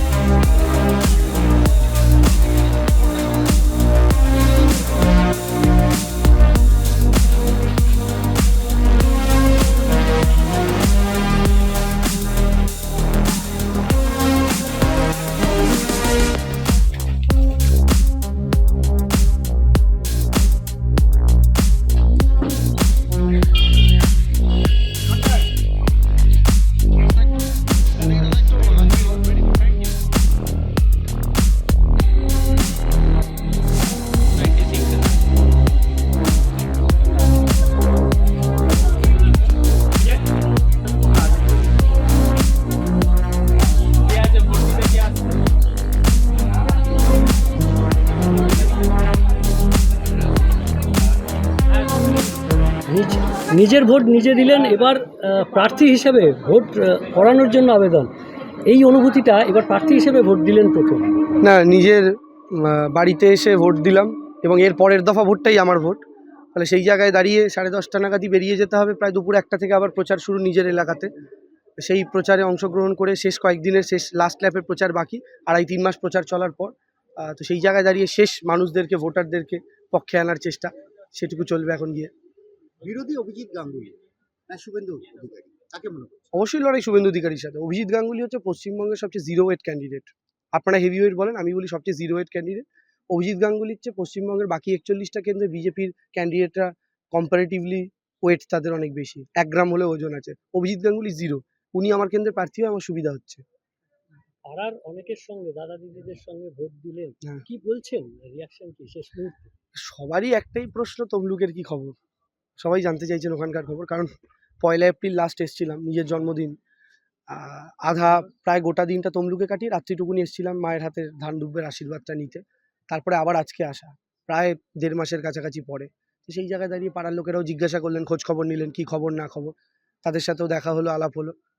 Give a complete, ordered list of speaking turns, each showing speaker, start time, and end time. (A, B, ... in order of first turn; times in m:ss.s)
0:44.4-0:45.1 A
0:52.9-0:58.1 A
0:58.6-1:01.1 A
1:01.4-1:06.0 B
1:06.5-1:11.1 B
1:11.8-1:22.1 B
1:22.8-1:26.3 C
1:26.3-1:43.4 B
1:44.5-1:49.5 A
1:49.8-1:51.9 B
1:52.6-1:54.1 B
1:54.6-1:56.6 B
1:57.3-2:11.4 B